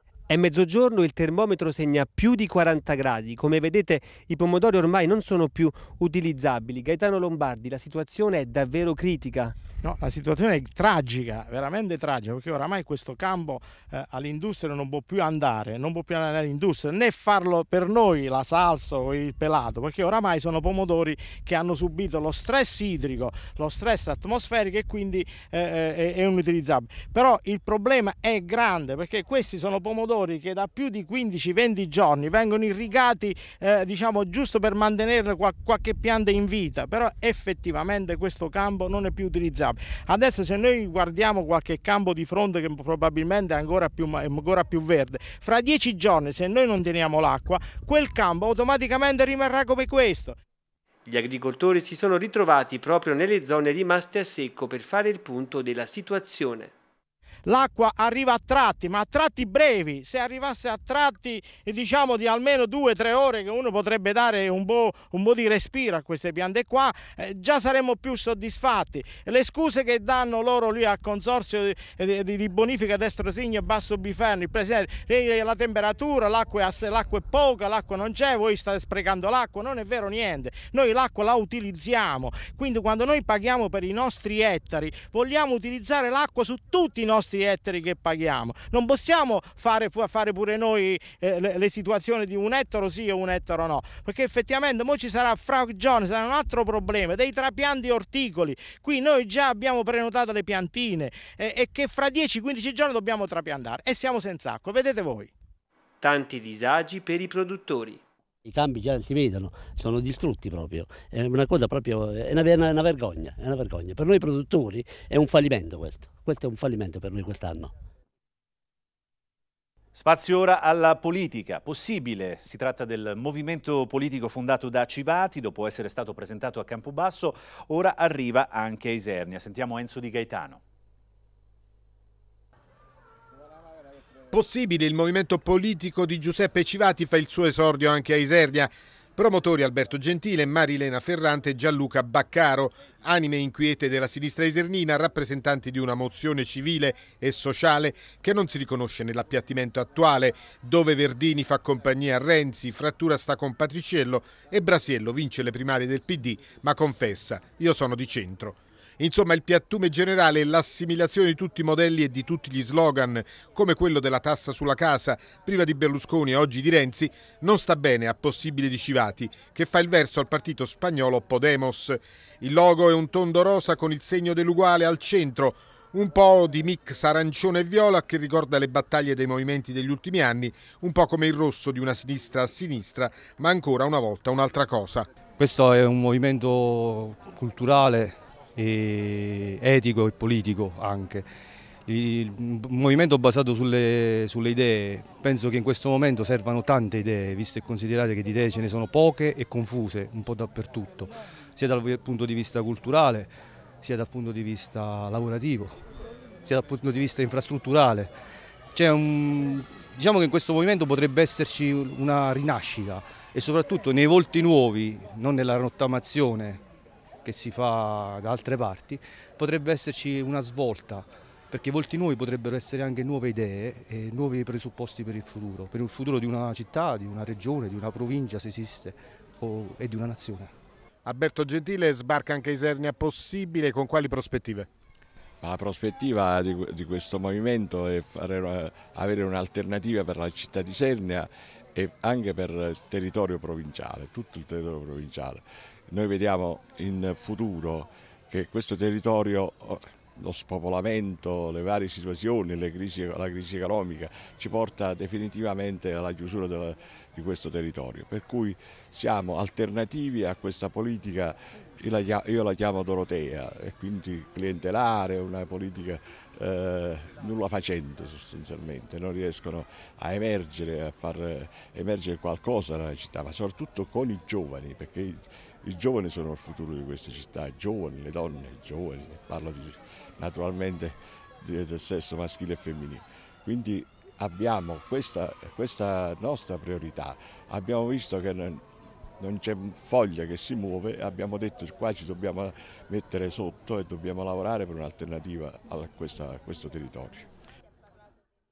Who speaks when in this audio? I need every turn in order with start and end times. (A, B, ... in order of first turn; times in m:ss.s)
0:00.3-0:09.6 A
0:09.8-0:50.4 B
0:51.1-0:56.7 A
0:57.5-1:45.3 B
1:46.0-1:48.0 A
1:48.4-1:57.7 C
2:00.0-2:10.6 D
2:14.3-3:05.1 E
3:05.4-3:11.3 F
3:11.9-3:25.8 F
3:26.4-3:28.2 F
3:28.7-3:36.6 F
3:37.2-3:50.5 F
3:51.0-3:54.7 E
3:55.4-4:57.3 G